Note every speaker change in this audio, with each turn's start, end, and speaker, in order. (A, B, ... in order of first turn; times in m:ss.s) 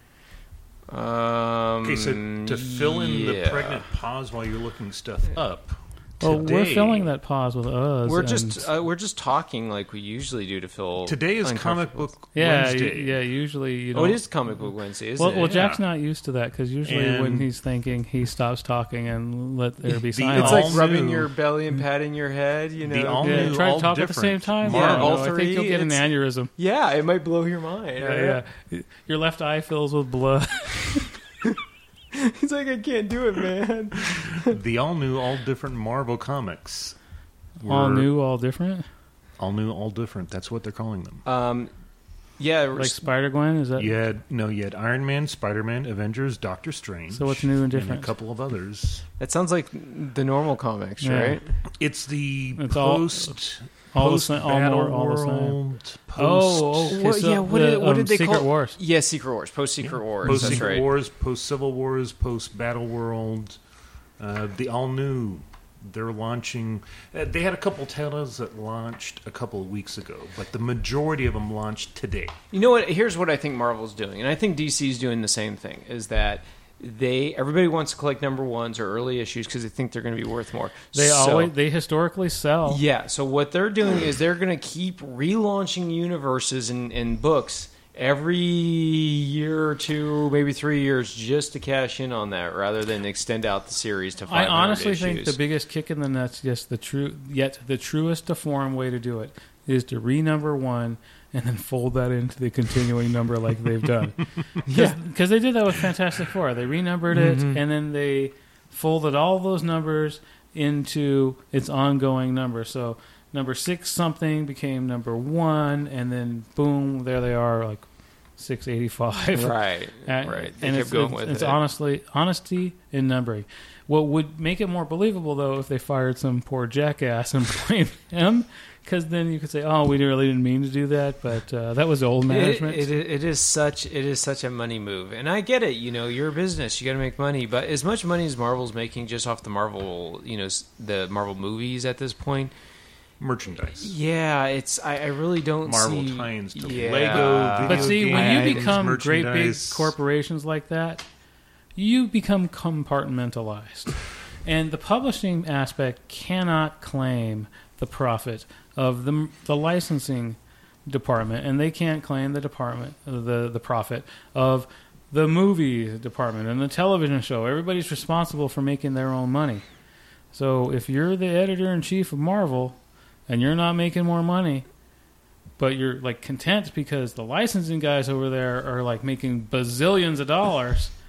0:00.9-0:03.9 A
0:01.8-0:07.1 B
0:06.2-0:08.6 C
0:08.1-0:12.1 A
0:11.0-0:13.2 B
0:12.3-0:14.2 C
0:13.9-0:15.6 A
0:15.2-0:20.8 C
0:15.5-0:15.8 B
0:16.8-0:17.5 B
0:20.0-0:21.3 B
0:20.3-0:23.6 A
0:22.8-0:25.2 B
0:23.2-0:26.5 C
0:24.6-0:26.0 A
0:26.6-0:28.4 A
0:28.0-0:31.1 C
0:32.1-0:34.6 A
0:34.4-0:36.9 B
0:37.6-0:38.1 B
0:37.6-0:38.9 C
0:39.4-0:41.2 B
0:41.2-0:41.7 A
0:42.4-0:43.0 A
0:42.8-0:43.9 C
0:43.8-0:49.0 B
0:47.1-0:48.1 C
0:49.2-0:51.5 A
0:51.0-0:51.4 C
0:51.8-0:57.0 B
0:52.6-0:53.4 C
0:53.9-0:55.6 C
0:56.2-0:58.8 C
0:56.9-1:00.9 A
0:59.8-1:03.6 B
1:00.3-1:00.6 C
1:04.2-1:12.4 B
1:12.5-1:21.5 A
1:20.9-1:22.8 C
1:22.6-1:35.4 A
1:34.3-1:57.9 C
1:44.6-1:45.0 A
1:47.1-1:47.6 A
1:58.4-2:12.9 C
1:59.3-2:01.6 A
2:12.3-2:22.5 A
2:23.2-2:23.9 B
2:23.8-2:28.8 A
2:25.6-2:29.9 B
2:27.6-2:31.0 C
2:31.8-2:49.6 C
2:50.3-2:54.6 C
2:55.6-3:00.9 C